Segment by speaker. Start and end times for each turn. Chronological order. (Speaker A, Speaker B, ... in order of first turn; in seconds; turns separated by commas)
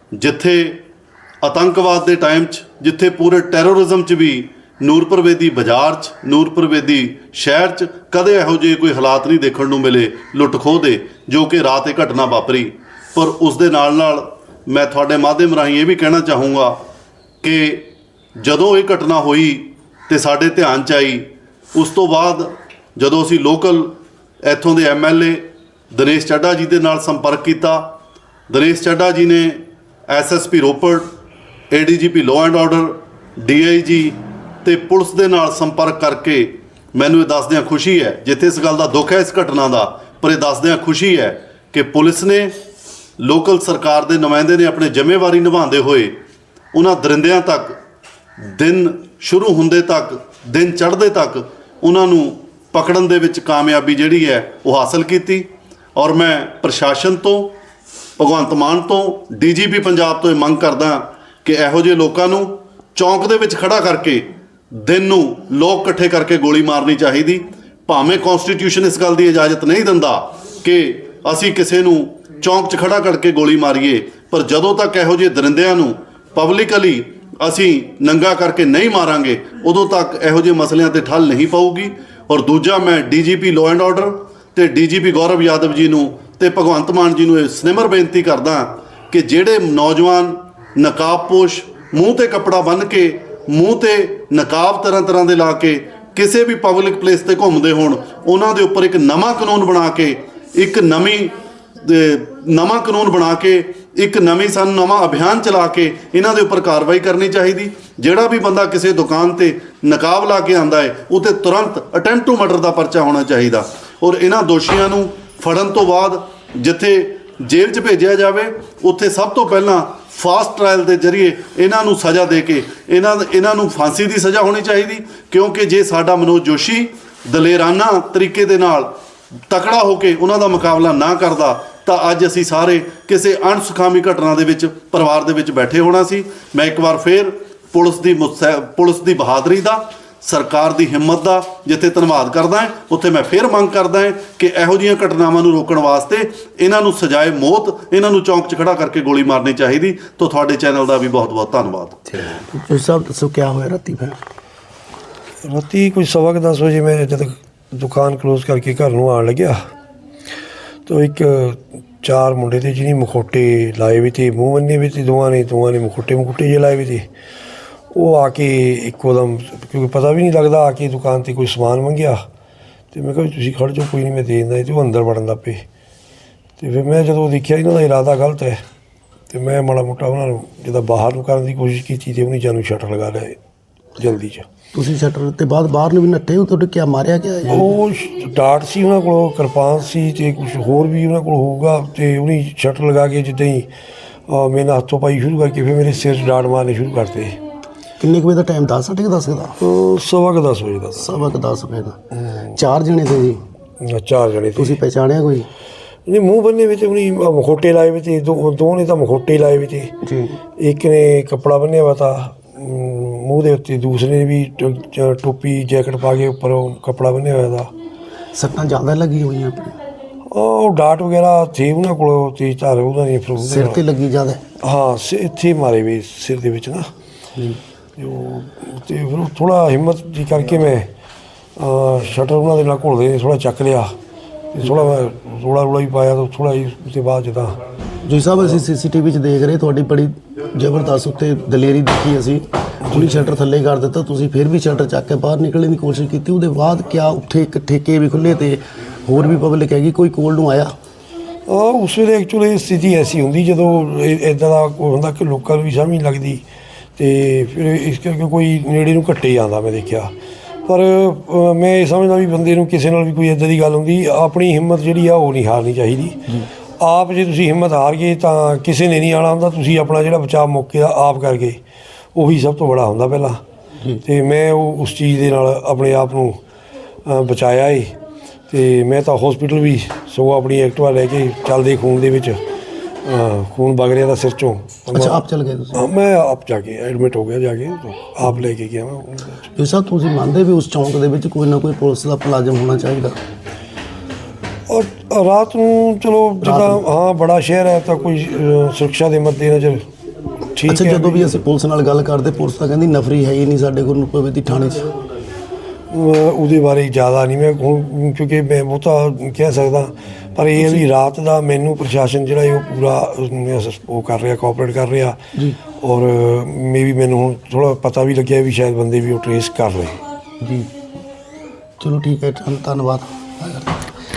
Speaker A: 0.1-0.8, Speaker A: 1.4-16.8, Speaker A: 17.4-17.9, Speaker A: 18.4-27.9, Speaker A: 28.5-31.1, Speaker A: 31.7-42.5, Speaker A: 43.2-46.2, Speaker A: 46.7-47.8, Speaker A: 48.5-57.6, Speaker A: 58.2-128.9, Speaker A: 129.5-152.0, Speaker B: 152.4-154.2, Speaker C: 155.4-159.6, Speaker C: 160.9-167.0, Speaker C: 167.9-172.2, Speaker C: 172.9-175.6, Speaker C: 176.6-178.6, Speaker C: 179.3-183.4, Speaker C: 184.0-184.4, Speaker B: 184.7-187.7, Speaker C: 187.5-193.7, Speaker C: 194.3-197.4, Speaker B: 198.0-199.5, Speaker C: 199.6-201.1, Speaker B: 201.0-202.0, Speaker B: 202.5-203.4, Speaker C: 203.8-204.8, Speaker B: 204.6-205.5, Speaker C: 206.1-209.9, Speaker B: 210.0-210.4, Speaker C: 210.6-217.7, Speaker B: 218.3-219.8, Speaker C: 220.3-223.8, Speaker B: 223.4-224.4, Speaker C: 224.6-226.9, Speaker C: 228.0-230.9, Speaker C: 231.6-233.9, Speaker C: 234.5-237.6, Speaker B: 238.0-250.7, Speaker C: 251.5-256.4, Speaker C: 257.0-260.1, Speaker C: 260.6-271.6, Speaker C: 272.1-273.4, Speaker C: 274.0-276.4, Speaker C: 277.1-277.9, Speaker C: 278.5-282.4, Speaker C: 283.0-285.2, Speaker B: 284.9-285.8, Speaker C: 285.8-289.4, Speaker B: 289.5-293.2, Speaker C: 294.7-299.8, Speaker B: 296.4-296.8, Speaker C: 300.5-301.2, Speaker B: 300.7-304.9, Speaker C: 305.9-315.2, Speaker C: 315.8-320.0, Speaker B: 320.4-320.7, Speaker B: 321.8-323.9